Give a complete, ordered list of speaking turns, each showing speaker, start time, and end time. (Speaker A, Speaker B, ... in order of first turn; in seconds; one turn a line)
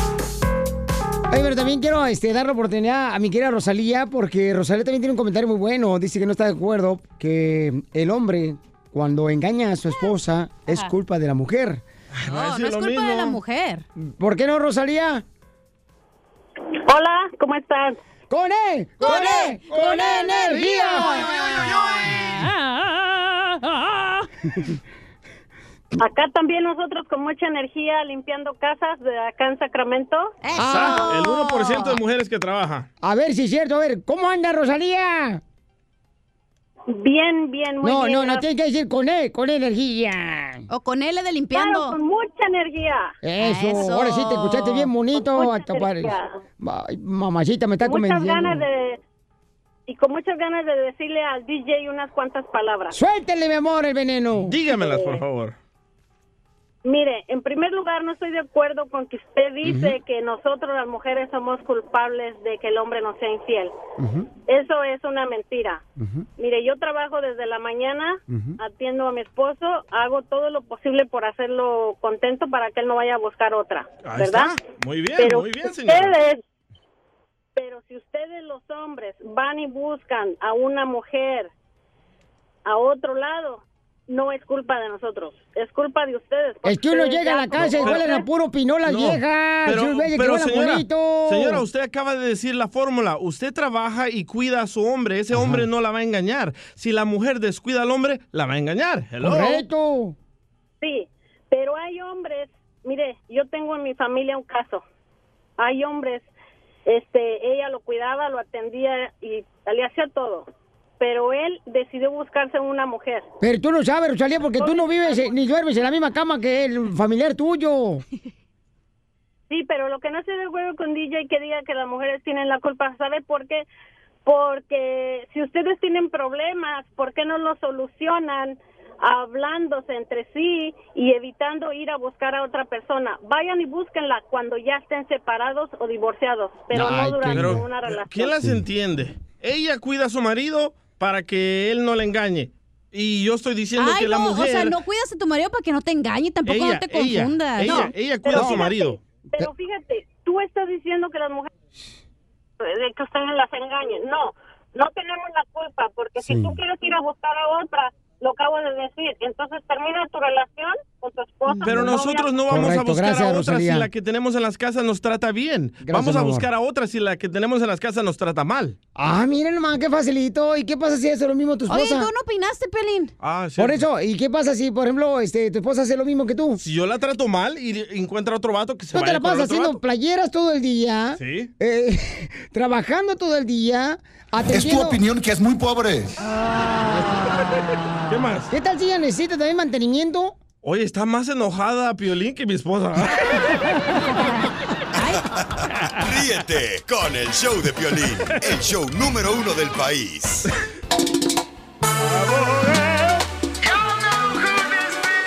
Speaker A: 1.3-11.8
Speaker B: 12.1-13.4
Speaker C: 12.3-13.8
Speaker A: 14.0-15.2
Speaker D: 16.8-18.0
Speaker A: 18.3-21.7
Speaker C: 19.0-22.9
Speaker D: 26.0-30.4
Speaker C: 30.4-32.0
Speaker A: 30.5-31.1
Speaker B: 30.6-32.9
Speaker A: 33.0-35.4
Speaker D: 36.9-38.4
Speaker A: 37.8-40.6
Speaker C: 40.7-42.0
Speaker D: 41.5-43.1
Speaker A: 43.2-48.6
Speaker C: 43.4-44.9
Speaker D: 45.1-46.4
Speaker D: 47.8-49.0
Speaker D: 49.9-52.9
Speaker A: 52.9-54.5
Speaker B: 54.4-55.5
Speaker D: 54.8-55.2
Speaker D: 56.8-63.7
Speaker A: 59.6-60.0
Speaker A: 64.0-64.3
Speaker D: 64.5-65.8
Speaker A: 66.0-66.2
Speaker D: 66.4-74.5
Speaker A: 68.3-68.6
Speaker B: 74.0-76.2
Speaker D: 75.2-76.4
Speaker D: 77.5-81.5
Speaker D: 82.6-88.3
Speaker A: 86.6-91.6
Speaker B: 87.5-88.1
Speaker B: 88.8-99.6
Speaker A: 95.3-95.6
Speaker A: 99.2-100.1
Speaker D: 100.8-104.8
Speaker D: 105.6-106.3
Speaker D: 106.8-110.5
Speaker D: 111.0-113.2
Speaker A: 113.4-118.0
Speaker D: 114.6-115.4
Speaker D: 119.5-123.7
Speaker D: 124.2-138.4
Speaker A: 136.7-137.6
Speaker B: 137.3-144.8
Speaker C: 143.8-147.9
Speaker B: 146.4-149.0
Speaker D: 148.2-151.5
Speaker A: 148.3-148.7
Speaker D: 152.6-162.3
Speaker A: 156.2-156.6
Speaker B: 161.5-168.8
Speaker A: 162.5-163.9
Speaker A: 165.8-166.5
Speaker A: 168.9-172.1
Speaker C: 171.7-173.1
Speaker B: 173.2-173.8
Speaker A: 173.6-176.6
Speaker B: 176.6-179.8
Speaker A: 178.9-185.0
Speaker B: 181.2-181.5
Speaker C: 186.5-187.4
Speaker A: 186.9-187.2
Speaker B: 188.1-188.5
Speaker A: 188.5-190.3
Speaker B: 190.6-193.4
Speaker C: 195.0-195.2
Speaker E: 196.0-200.4
Speaker B: 202.0-203.2
Speaker B: 204.3-204.8